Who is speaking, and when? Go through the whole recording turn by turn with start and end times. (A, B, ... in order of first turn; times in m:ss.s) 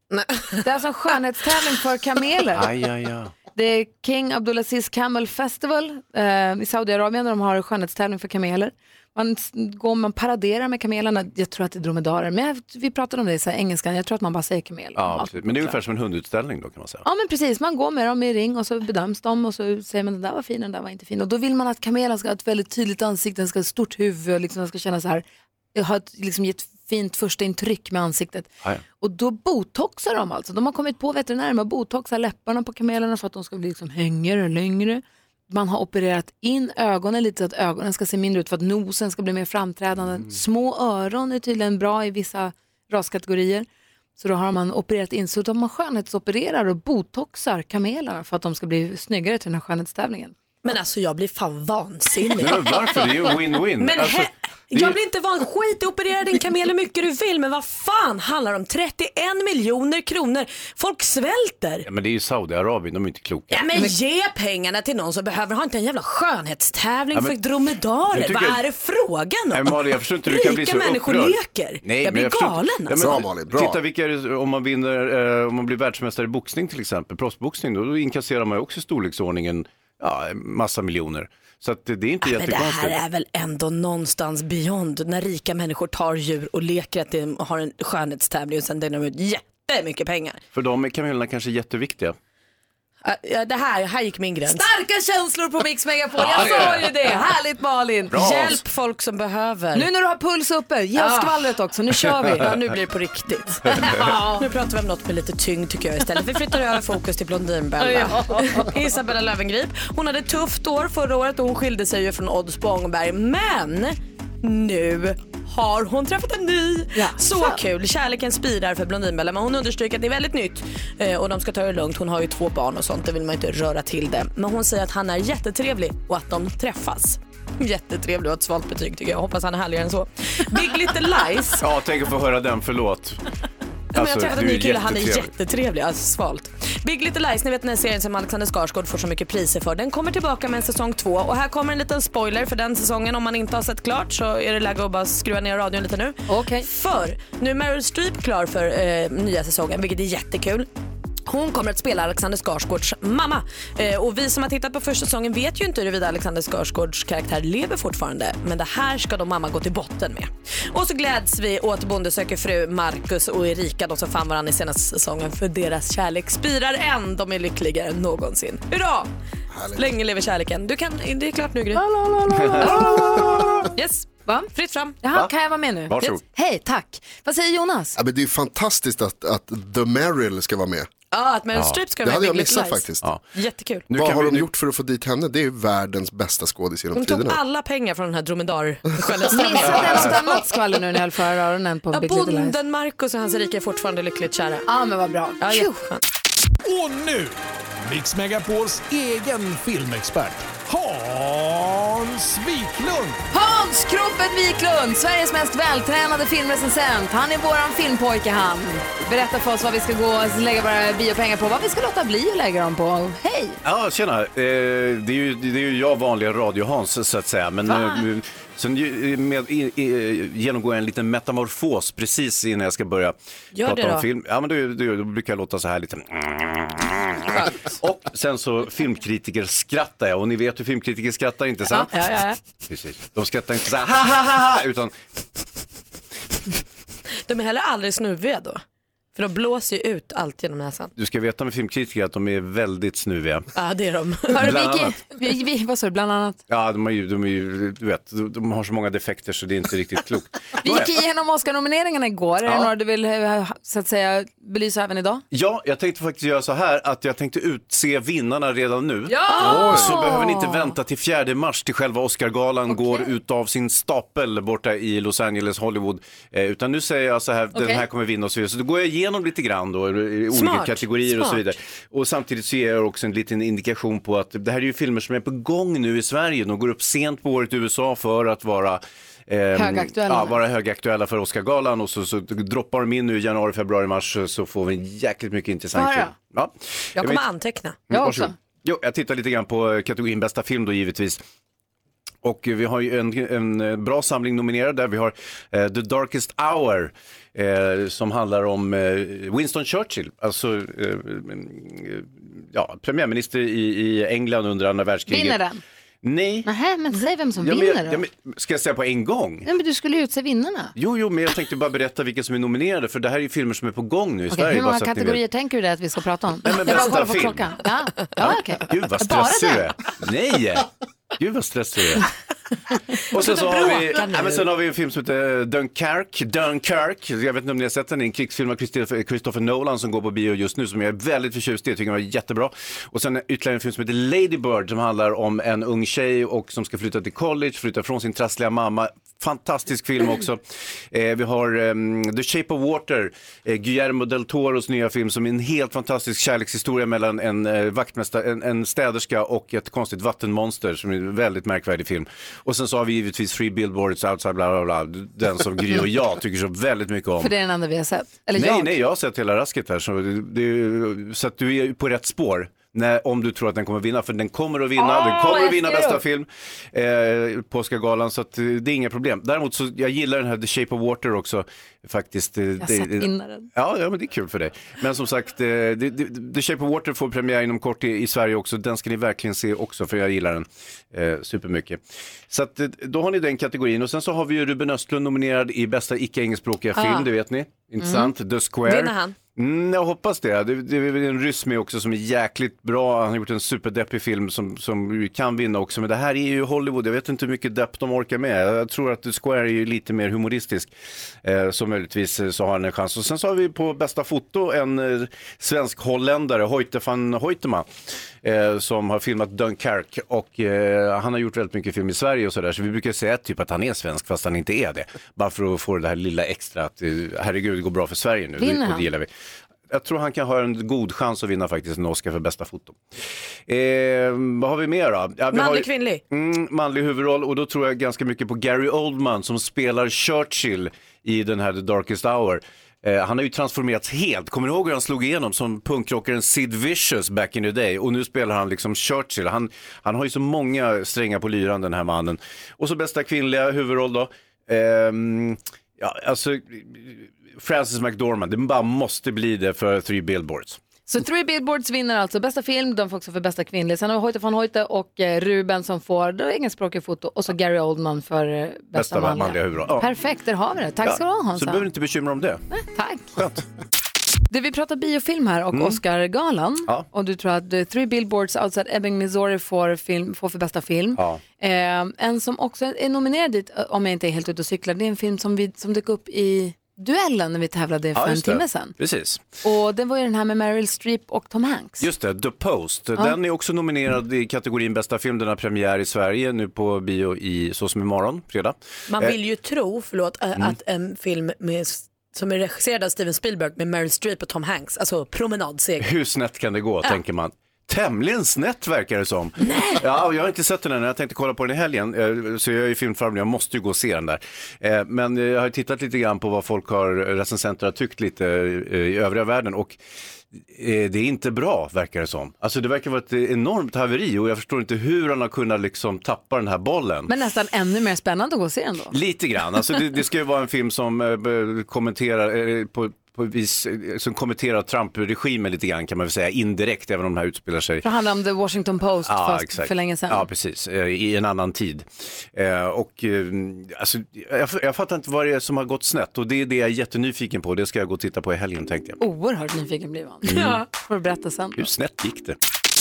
0:00.1-0:00.6 A
0:00.6-0:02.7 B
0:02.5-0:03.3 C
0:03.5-0:15.8 B
0:15.0-0:17.0 C
0:17.0-0:43.7 B
0:44.2-0:50.3 B
0:50.6-0:53.0 A
0:52.4-0:55.0 C
0:53.8-1:01.8 A
1:01.8-1:03.9 C
1:03.5-1:13.2 A
1:08.1-1:08.6 C
1:09.5-1:23.0 C
1:13.0-1:13.8 D
1:22.2-1:30.4 A
1:30.5-1:32.2 C
1:33.0-1:34.7 A
1:34.5-1:38.2 B
1:36.2-1:36.8 C
1:36.4-1:37.1 A
1:38.1-1:38.6 C
1:38.1-1:39.9 A
1:39.8-1:42.5 B
1:41.0-1:41.5 A
1:42.1-2:11.6 A
1:43.9-1:44.4 B
1:47.8-1:48.6 B
1:57.0-1:57.6 B
2:11.6-2:13.2 C
2:13.9-2:15.3 C
2:14.0-2:30.7 A
2:26.3-2:26.7 B
2:31.3-2:49.1 A
2:49.5-2:49.8 D
2:49.7-2:51.8 A
2:51.8-2:54.5 B
2:52.3-2:52.9 C
2:54.5-2:55.0 A
2:55.0-2:58.0 B
2:55.9-2:56.2 C
2:58.0-3:00.9 D
3:01.1-3:03.9 A
3:01.5-3:01.8 C
3:02.0-3:03.0 D
3:03.9-3:04.5 C
3:03.9-3:07.4 D
3:07.0-3:10.4 A
3:09.3-3:12.6 B
3:09.7-3:10.1 C
3:11.9-3:14.7 A
3:14.7-3:15.8 B
3:15.4-3:16.0 A
3:16.6-3:23.2 E
3:23.3-3:33.6 B
3:33.6-3:51.9 C
3:37.7-3:38.0 B
3:43.5-3:44.1 A
3:47.3-3:47.6 A
3:51.7-3:52.4 A
3:52.7-3:54.9 C
3:57.3-3:58.6 A
3:59.2-4:00.9 A
4:01.0-4:03.5 C
4:03.6-4:04.4 A
4:04.3-4:05.0 C
4:04.3-4:06.4 B
4:06.5-4:10.9 C
4:10.6-4:15.2 B
4:12.4-4:12.7 C
4:15.3-4:47.2 C
4:19.1-4:20.2 B
4:19.3-4:20.3 A
4:22.7-4:23.1 B
4:27.6-4:27.8 B
4:30.3-4:31.4 A
4:39.6-4:40.4 B
4:45.7-4:46.1 B
4:47.0-4:47.8 A
4:47.9-4:51.2 C
4:47.9-4:48.3 B
4:52.2-5:05.4 C
5:05.1-5:05.6 B
5:06.0-5:06.5 C
5:06.5-5:08.0 B
5:07.4-5:09.5 C
5:09.4-5:10.7 B
5:10.8-5:15.2 C
5:14.3-5:19.7 B
5:16.4-5:17.5 C
5:18.2-5:22.1 C
5:23.1-5:57.3 C
5:23.2-5:24.5 A
5:57.2-5:58.8 B
5:58.3-6:40.7 C
6:04.8-6:06.0 B
6:12.6-6:13.5 B
6:26.8-6:27.1 A
6:27.8-6:28.1 A
6:28.6-6:29.2 A
6:41.2-6:47.7 C
6:48.2-6:59.1 C
6:58.4-6:58.9 B
6:59.7-7:02.8 C
7:03.5-7:30.6 C
7:05.3-7:06.0 A
7:30.9-7:41.6 B
7:38.7-7:39.9 C
7:40.8-7:42.4 C
7:42.5-7:43.1 B
7:43.2-7:43.4 C
7:44.3-7:58.8 B
7:45.5-7:45.8 C
7:51.0-7:51.2 C
7:58.0-7:59.2 C
7:59.4-8:01.9 B
8:01.8-8:09.2 C
8:08.9-8:15.9 A
8:15.8-8:29.8 C
8:19.4-8:19.8 A
8:30.3-8:37.1 C
8:37.1-8:39.0 B
8:38.9-8:47.8 C
8:47.8-8:50.2 B
8:49.1-8:59.0 C
8:59.0-9:01.7 B
9:00.3-9:00.6 C
9:00.3-9:00.6 A
9:01.6-9:02.4 C